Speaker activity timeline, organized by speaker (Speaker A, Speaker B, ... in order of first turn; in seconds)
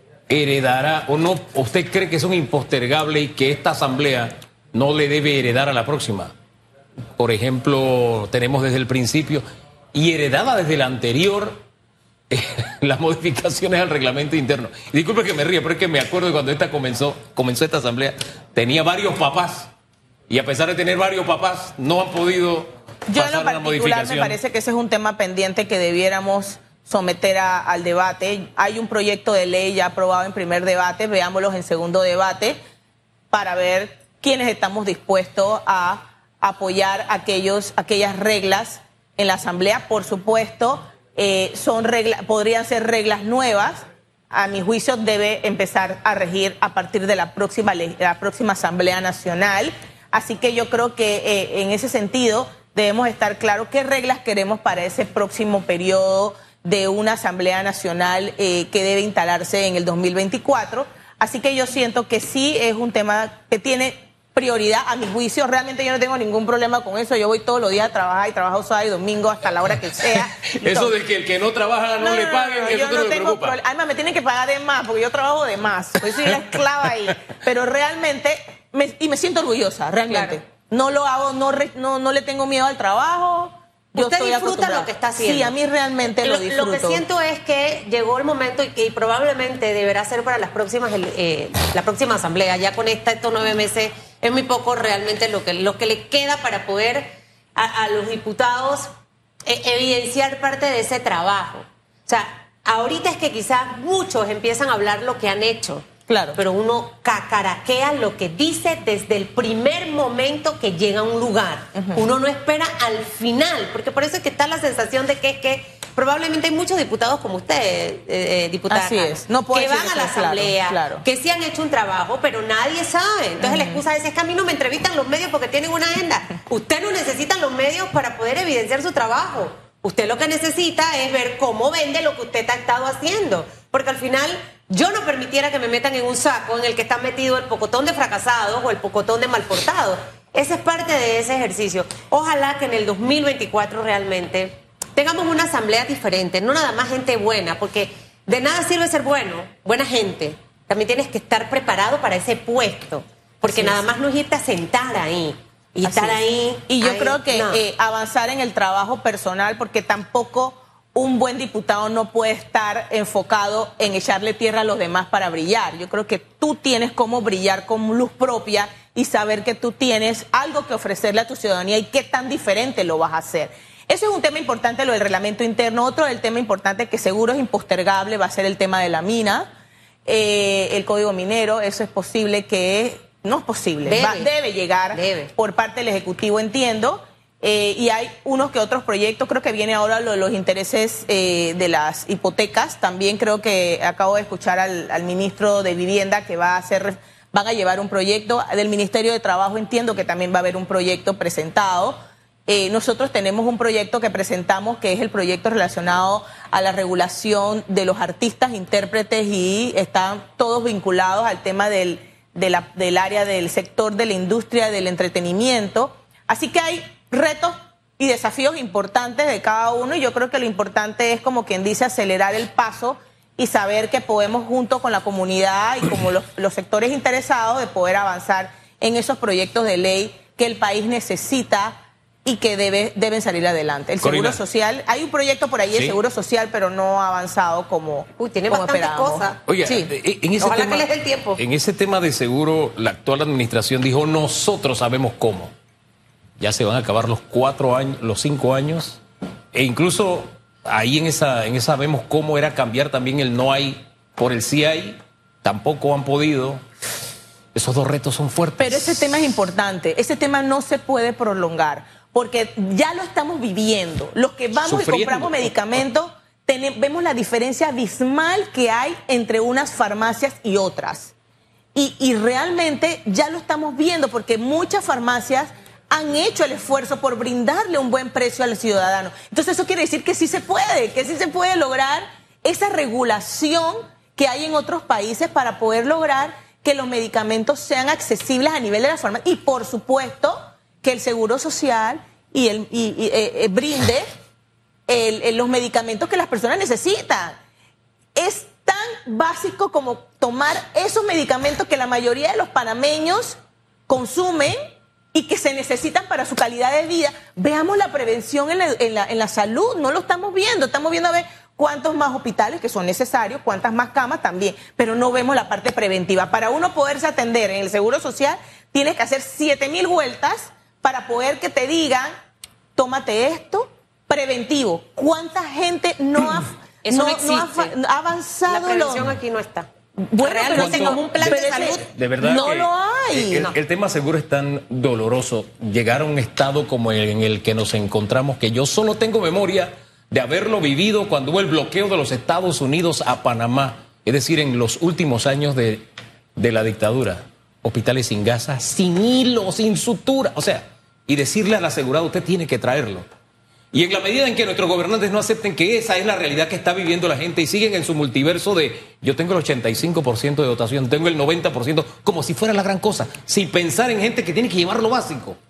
Speaker A: 0.3-6.3, 7.2-11.6, 12.3-19.7, 20.3-24.4, 70.0-73.6, 234.0-234.4, 239.5-245.5, 246.4-249.0, 249.5-256.6, 257.5-259.1, 264.6-265.8, 330.5-345.9, 346.4-353.1, 353.7-365.4
Speaker B: 23.1-32.6, 33.3-70.9, 72.0-87.0, 106.1-106.4, 111.8-112.0, 118.7-121.0, 123.4-123.8, 153.4-153.8, 155.8-179.5, 180.1-239.9, 258.6-271.1, 271.8-294.1, 294.9-297.4, 298.1-304.6, 305.1-322.1, 322.8-329.1, 330.0-333.5
Speaker C: 80.1-80.4, 83.9-85.5, 86.2-98.9, 99.5-157.6, 183.9-184.3, 184.9-185.3, 238.2-239.4, 240.4-241.4, 326.8-327.7, 328.5-332.6